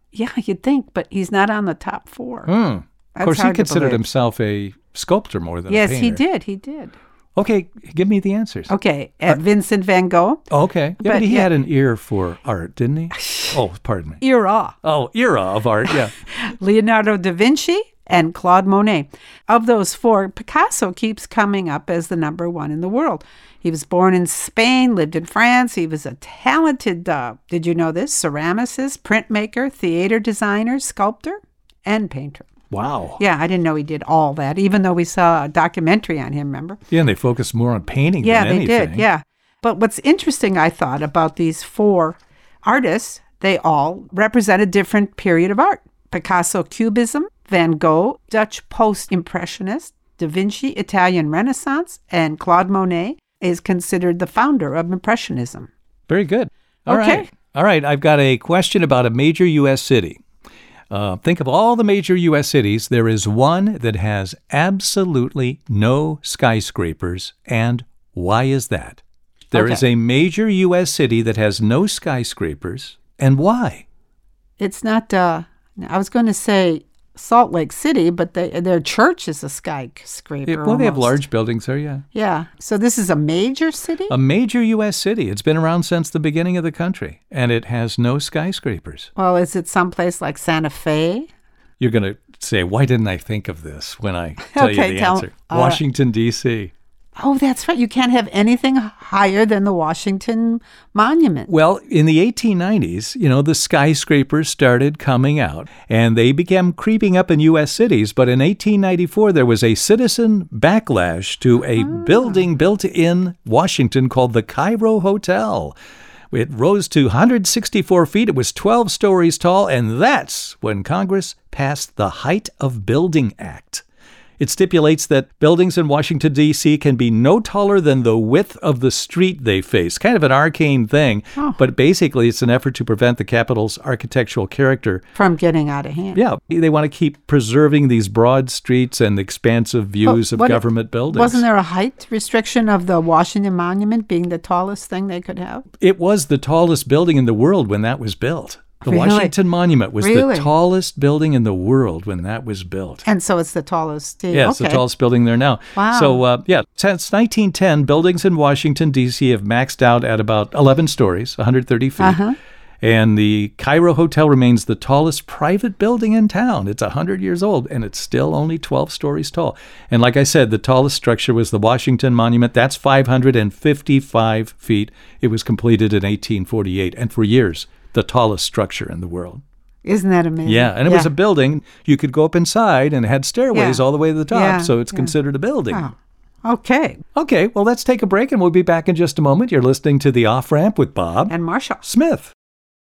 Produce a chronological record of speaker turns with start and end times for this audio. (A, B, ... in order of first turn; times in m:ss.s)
0:00.1-0:02.5 A
0:02.5-0:06.2 B
0:03.2-0:04.0 A
0:05.7-0:07.0 A
0:07.4-0:08.7 B
0:08.7-0:10.4 A
0:10.5-0:14.2 B
0:11.0-0:11.5 A
0:13.2-0:13.6 A
0:14.2-0:14.8 A
0:14.8-0:16.1 B
0:15.9-0:32.5 A
0:32.7-0:33.2 B
0:33.2-0:36.8 A
0:36.9-0:39.1 B
0:38.2-0:55.7 A
0:56.1-1:00.2 B
0:56.9-0:57.3 A
1:00.9-1:13.8 B
1:09.5-1:09.8 A
1:14.6-1:21.2 A
1:20.5-1:22.0 B
1:22.1-1:24.1 A
1:24.1-1:29.1 B
1:29.2-1:31.3 A
1:31.8-1:36.7 B
1:34.5-1:35.8 A
1:37.2-1:41.5 A
1:41.5-1:55.8 B
1:51.8-1:52.4 A
1:56.3-2:03.8 B
2:04.4-2:15.0 B
2:15.2-2:16.2 A
2:16.1-2:21.4 B
2:20.0-2:25.6 A
2:25.8-2:33.1 B
2:28.8-2:29.3 A
2:30.0-2:30.5 A
2:33.0-2:34.8 A
2:34.3-2:42.2 B
2:35.8-2:36.2 A
2:42.0-2:42.4 A
2:42.8-2:59.4 B
2:59.8-3:01.1 A
3:00.5-3:05.9 B
3:03.5-3:05.1 A
3:05.7-3:07.0 A
3:07.2-3:12.3 B
3:11.3-3:11.8 A